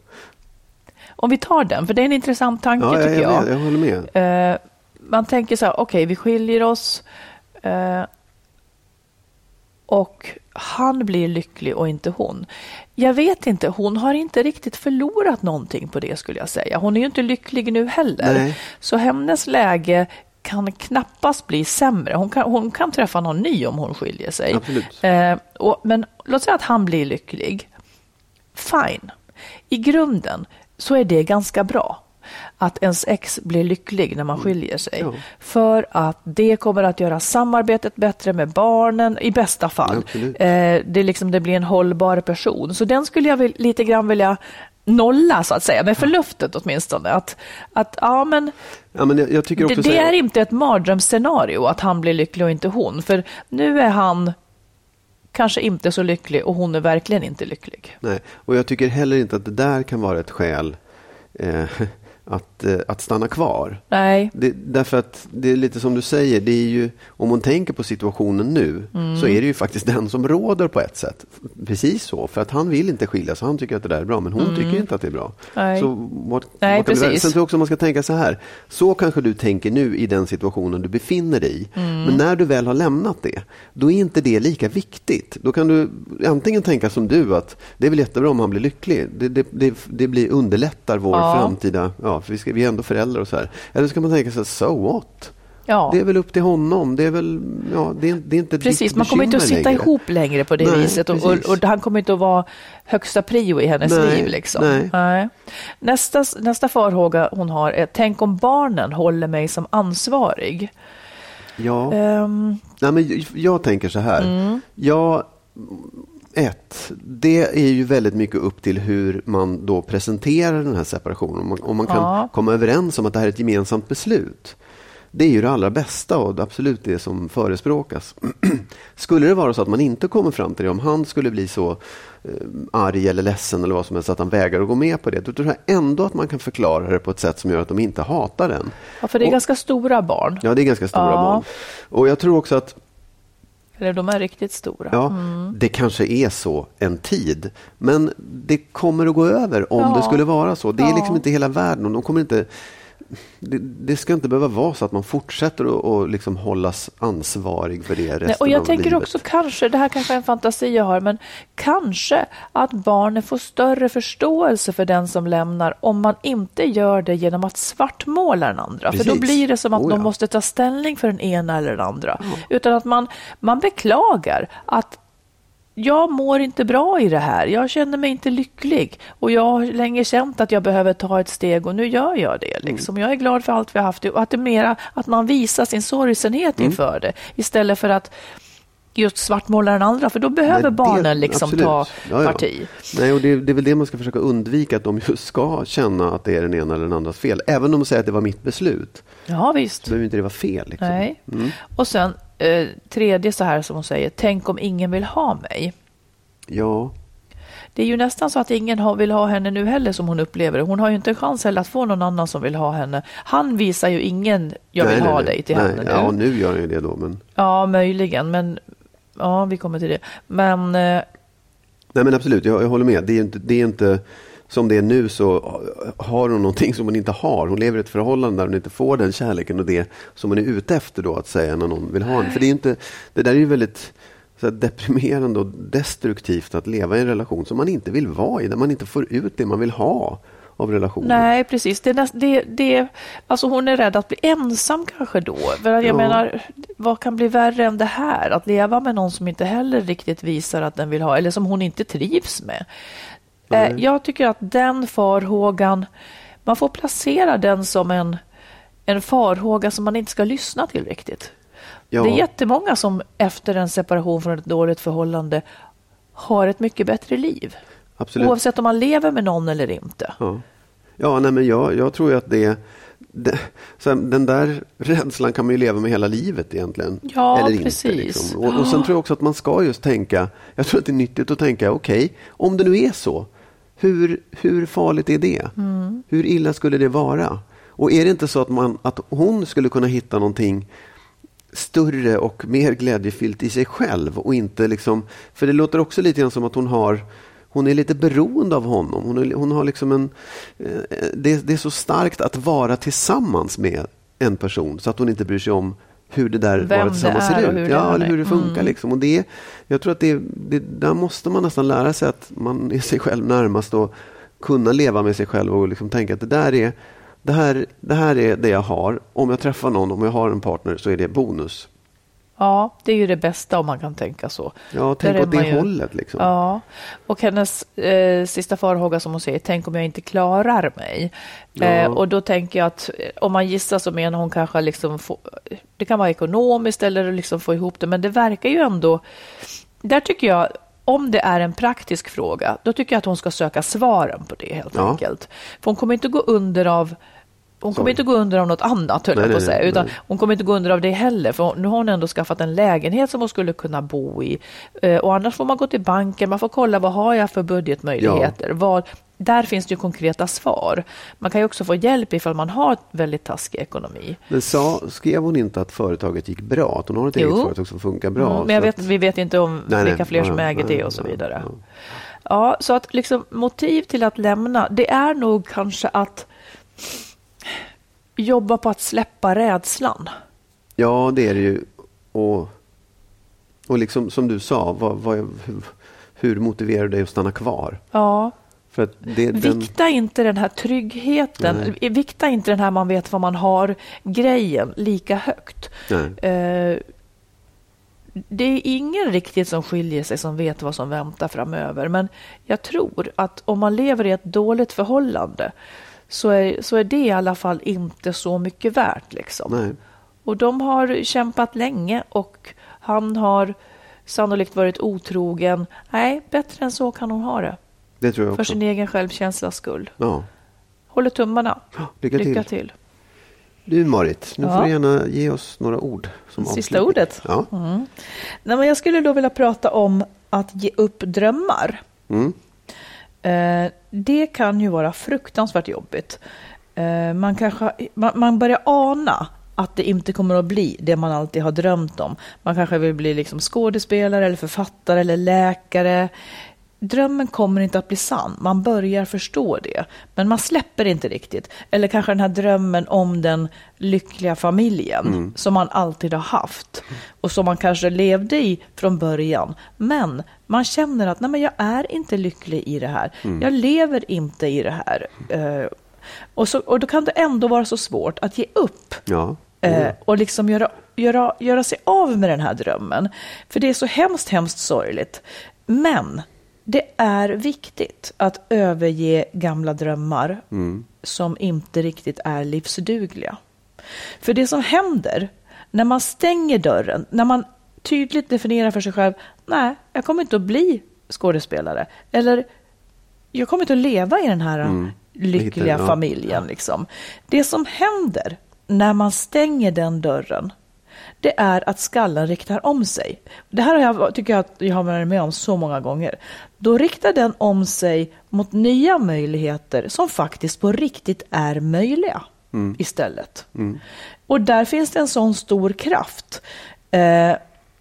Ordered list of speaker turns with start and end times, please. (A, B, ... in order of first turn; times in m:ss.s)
0:01.2-0:03.5 A
0:02.8-0:04.1 B
0:04.1-0:07.0 A
0:07.6-0:08.1 A
0:09.9-0:27.7 A
0:18.2-0:18.6 B
0:24.5-0:25.0 B
0:28.5-0:29.1 A
0:29.7-0:32.0 A
0:32.6-0:48.5 A
0:35.0-0:35.2 B
0:39.8-0:40.4 B
0:48.9-0:50.1 B
0:49.6-0:54.4 A
0:55.3-0:58.0 A
0:58.0-1:00.8 B
1:01.3-1:35.3 B
1:03.9-1:04.3 A
1:08.9-1:09.4 A
1:14.4-1:14.8 A
1:15.5-1:15.9 A
1:16.6-1:17.3 A
1:21.8-1:22.2 A
1:31.1-1:31.5 A
1:35.7-1:36.0 A
1:35.9-1:39.9 B
1:38.6-1:50.7 A
1:40.6-1:41.6 B
1:43.8-1:44.9 B
1:51.6-1:52.0 B
1:51.9-1:52.6 A
1:52.8-2:04.6 B
1:54.2-1:54.6 A
2:01.9-2:02.3 A
2:05.1-2:19.4 B
2:19.0-2:21.4 A
2:20.4-2:22.8 B
2:23.8-2:25.5 A
2:24.9-2:32.5 B
2:29.8-2:30.2 A
2:30.8-2:31.2 A
2:33.1-2:39.2 B
2:38.2-2:55.0 A
2:48.9-2:50.1 B
2:52.2-2:52.4 B
2:55.8-3:08.1 A
3:09.0-3:12.8 A
3:10.5-3:19.0 B
3:19.3-3:19.9 A
3:19.8-3:21.6 B
3:20.8-3:25.7 A
3:26.5-3:26.9 B
3:27.7-3:36.1 A
3:34.8-3:37.2 B
3:37.4-3:38.6 A
3:39.2-3:41.0 A
3:41.9-4:01.2 B
4:01.0-4:12.6 A
4:05.8-4:06.2 B
4:13.5-4:13.8 B
4:13.5-4:15.9 A
4:16.4-4:18.2 A
4:18.9-4:21.3 A
4:21.9-4:22.2 B
4:22.0-4:25.4 A
4:26.2-4:27.6 A
4:28.0-4:28.3 B
4:28.2-4:30.2 A
4:31.0-4:45.5 B
4:37.0-4:38.9 A
4:45.6-4:46.0 A
4:46.1-4:50.7 B
4:51.5-5:21.7 B
5:06.6-5:08.7 A
5:22.4-5:39.0 A
5:24.7-5:26.3 B
5:31.6-5:32.0 B
5:39.8-5:47.0 A
5:44.7-5:45.0 B
5:47.6-6:04.2 A
5:47.7-5:48.0 B
5:49.1-5:49.9 B
5:58.0-5:58.4 B
6:04.3-6:08.9 B
6:07.1-6:07.5 A
6:08.2-6:11.5 A
6:09.7-6:11.6 B
6:12.2-6:16.3 A
6:18.2-6:20.1 A
6:20.8-6:22.5 B
6:23.7-6:27.8 B
6:27.9-6:28.3 A
6:28.7-6:29.7 B
6:29.3-6:36.8 A
6:31.4-6:31.7 B
6:35.9-6:36.2 B
6:38.3-6:45.5 A
6:46.1-6:49.6 A
6:49.5-6:49.8 B
6:50.2-6:53.5 A
6:54.1-6:57.6 A
6:58.0-6:58.6 B
6:58.3-6:59.9 A
7:00.0-7:00.3 B
7:00.9-7:02.7 A
7:01.8-7:02.4 B
7:03.6-7:07.5 B
7:04.4-7:04.7 A
7:06.4-7:11.8 A
7:12.1-7:12.4 B
7:13.2-7:16.2 A
7:16.8-7:26.1 A
7:26.8-7:45.7 A
7:35.0-7:35.3 B
7:46.4-7:49.0 A
7:49.1-7:49.9 B
7:49.6-8:00.4 A
8:00.5-8:00.8 B
8:01.0-8:03.4 A
8:04.2-8:12.4 A
8:13.3-8:20.5 A
8:14.6-8:16.0 B
8:21.2-8:33.5 A
8:32.5-8:32.8 B
8:33.5-8:33.8 B
8:34.3-8:37.4 A